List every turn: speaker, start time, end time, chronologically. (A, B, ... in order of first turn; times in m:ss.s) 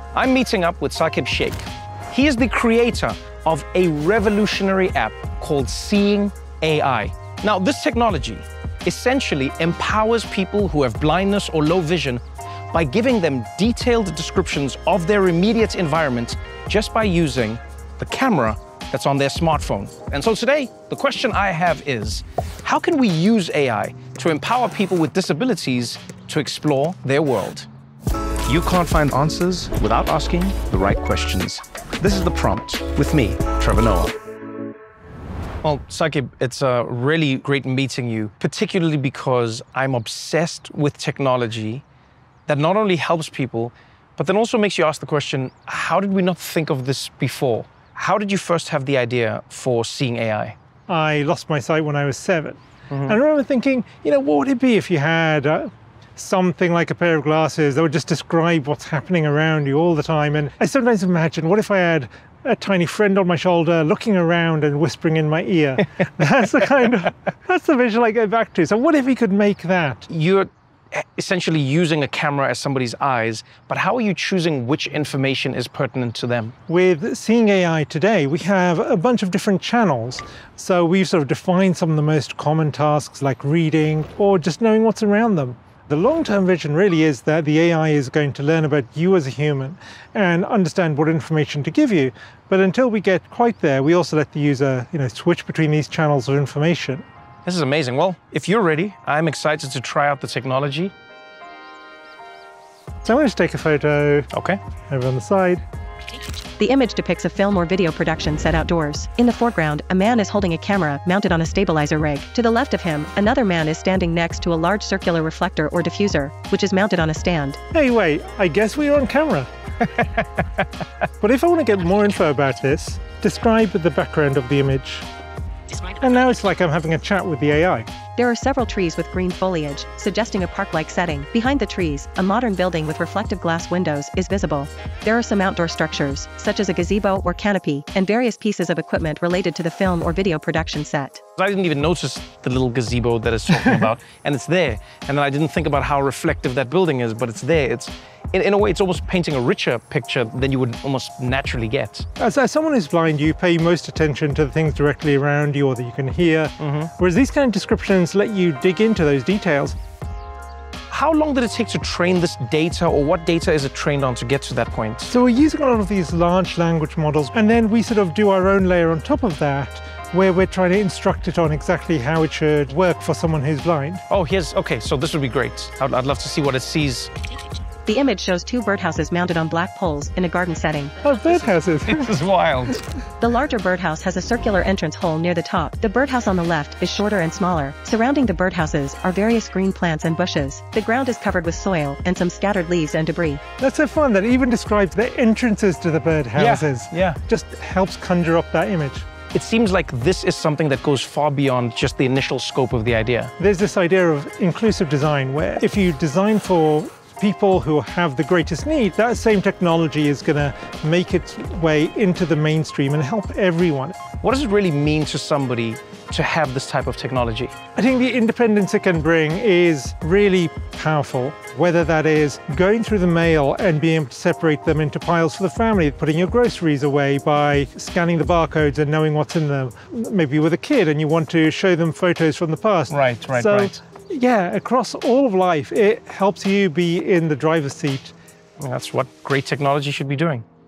0:00.1-0:12.2 A
0:12.7-0:27.7 A
0:28.5-0:34.1 A
0:35.6-0:41.8 A
0:42.5-0:50.6 A
0:50.9-1:10.1 B
1:10.1-1:16.5 A
1:16.7-1:37.0 B
1:37.4-1:40.9 A
1:43.0-1:44.3 B
1:44.3-1:44.6 A
1:44.9-1:45.6 B
1:46.6-1:57.6 C
1:57.7-1:59.5 B
2:01.2-2:05.1 B
2:05.8-2:07.9 B
2:08.2-2:21.2 C
2:21.4-2:32.1 A
2:32.2-2:39.8 B
2:36.6-2:36.9 A
2:40.9-2:45.1 A
2:45.1-2:54.0 B
2:54.1-2:57.1 A
2:57.9-3:01.0 C
3:01.0-3:02.2 B
3:01.8-3:02.8 A
3:03.2-3:13.4 C
3:13.6-3:19.1 B
3:16.4-3:17.2 A
3:19.3-3:23.3 A
3:23.4-3:34.0 B
3:34.2-3:37.5 A
3:37.8-3:58.1 B
3:52.9-3:53.8 A
3:58.6-4:00.4 A